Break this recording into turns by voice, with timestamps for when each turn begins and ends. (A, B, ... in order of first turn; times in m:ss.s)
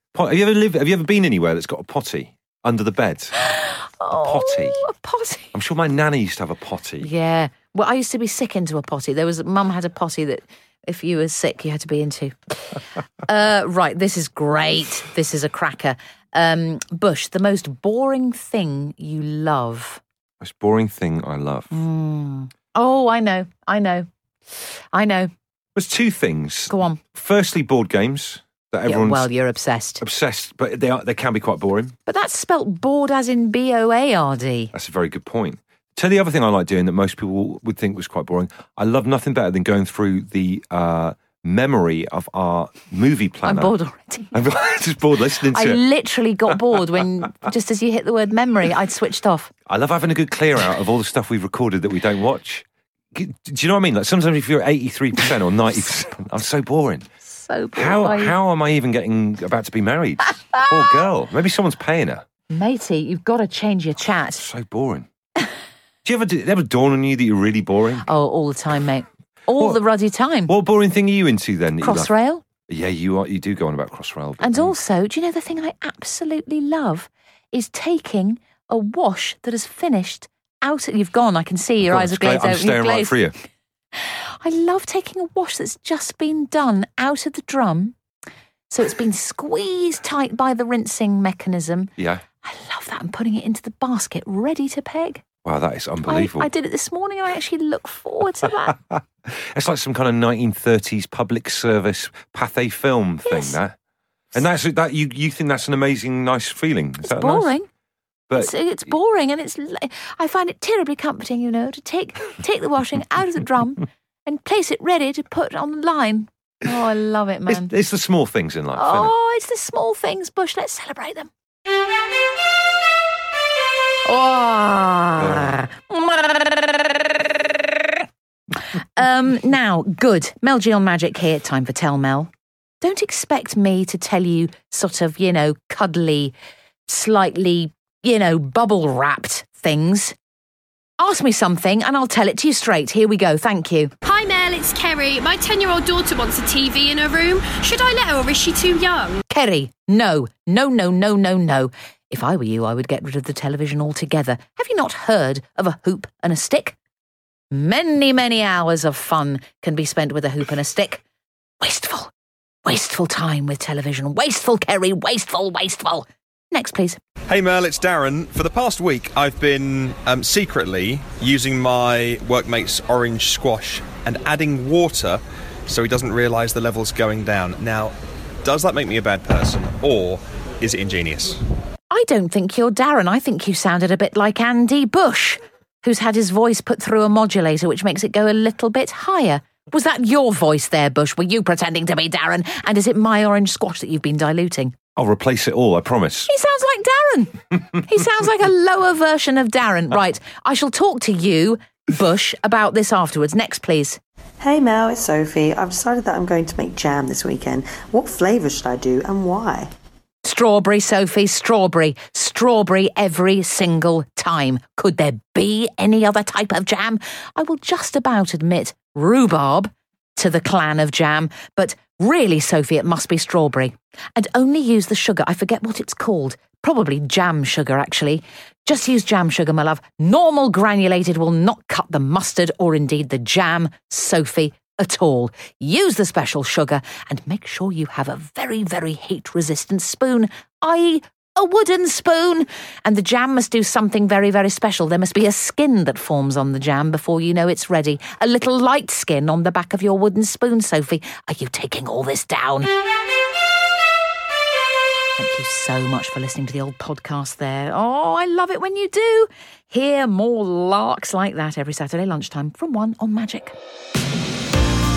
0:00.1-0:03.3 A
0:03.4-0:05.5 B
0:04.1-0:04.8 A
0:05.5-0:07.1 A
0:07.0-0:20.0 B
0:20.4-0:21.8 A
0:21.7-0:24.1 B
0:24.9-0:25.3 B
0:25.8-0:29.3 A
0:26.7-0:27.0 B
0:28.9-0:30.0 B
0:30.0-0:32.0 A
0:32.1-0:34.7 B
0:34.7-0:43.7 A
0:43.4-0:44.4 B
0:44.3-0:45.8 A
0:45.4-0:49.5 B
0:49.7-0:57.1 A
0:57.3-0:58.4 B
0:57.8-1:02.2 A
1:02.5-1:04.5 B
1:04.4-1:05.1 A
1:06.0-1:08.1 A
1:08.0-1:10.5 B
1:10.5-1:12.1 A
1:11.8-1:12.4 B
1:12.7-1:14.7 A
1:14.4-1:23.2 B
1:21.8-1:23.4 A
1:24.0-1:28.0 B
1:28.7-1:31.9 B
1:32.0-1:32.2 A
1:32.4-1:35.2 B
1:35.4-1:36.5 A
1:36.1-1:38.8 B
1:38.9-1:43.8 A
1:43.3-1:43.6 B
1:44.3-1:47.5 A
1:47.0-1:47.7 B
1:48.4-1:57.7 B
1:57.5-1:59.1 A
1:58.8-2:01.3 B
2:04.1-2:08.0 B
2:05.2-2:05.6 A
2:08.7-2:12.3 B
2:12.8-2:16.4 B
2:16.9-2:20.2 B
2:21.0-2:23.9 B
2:24.0-2:29.2 C
2:29.3-2:36.8 B
2:37.5-2:41.0 B
2:41.6-2:42.1 B
2:42.6-2:47.0 B
2:47.3-3:01.4 D
3:01.9-3:14.8 B
3:15.0-3:16.3 A
3:16.3-3:24.0 B
3:24.4-3:29.7 E
3:30.2-4:12.7 B
4:15.2-4:23.6 B